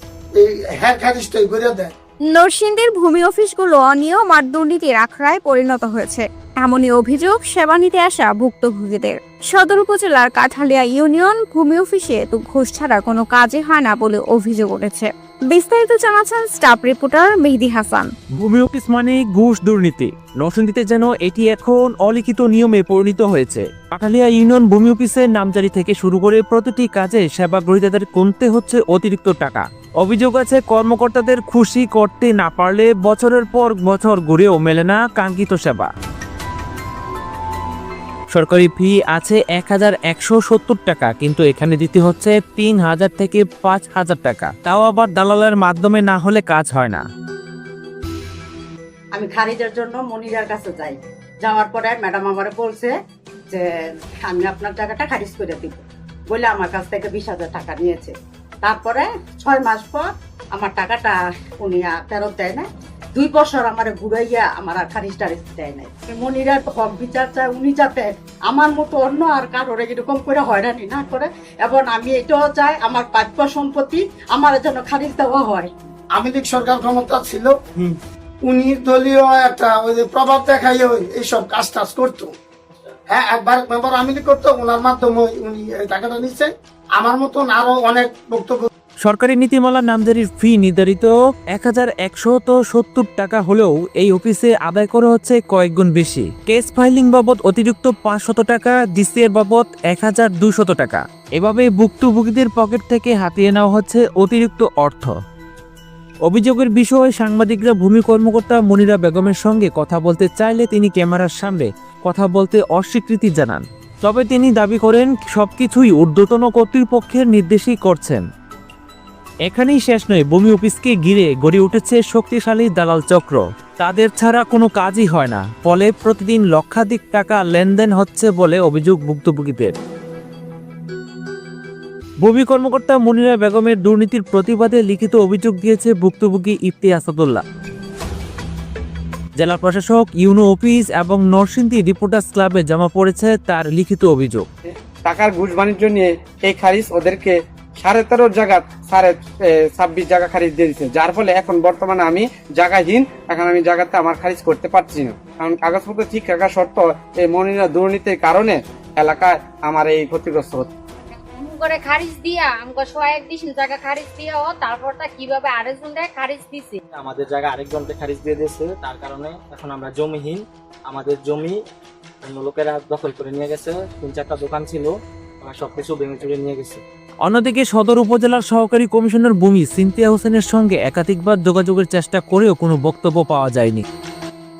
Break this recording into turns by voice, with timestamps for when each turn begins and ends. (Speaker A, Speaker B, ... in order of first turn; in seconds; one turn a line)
Speaker A: 0.3-1.9
Speaker B: 2.3-18.1
Speaker C: 18.3-35.9
Speaker C: 38.3-47.0
Speaker D: 49.1-52.9
Speaker D: 54.2-75.7
Speaker A: 76.1-82.3
Speaker A: 83.1-88.7
Speaker C: 89.0-105.1
Speaker C: 106.2-118.2
Speaker C: 119.5-129.7
Speaker C: 132.2-137.4
Speaker C: 139.4-144.4
Speaker E: 145.0-149.1
Speaker E: 149.7-160.7
Speaker F: 161.3-166.8
Speaker G: 166.9-171.6
Speaker G: 172.2-176.8
Speaker C: 177.2-183.8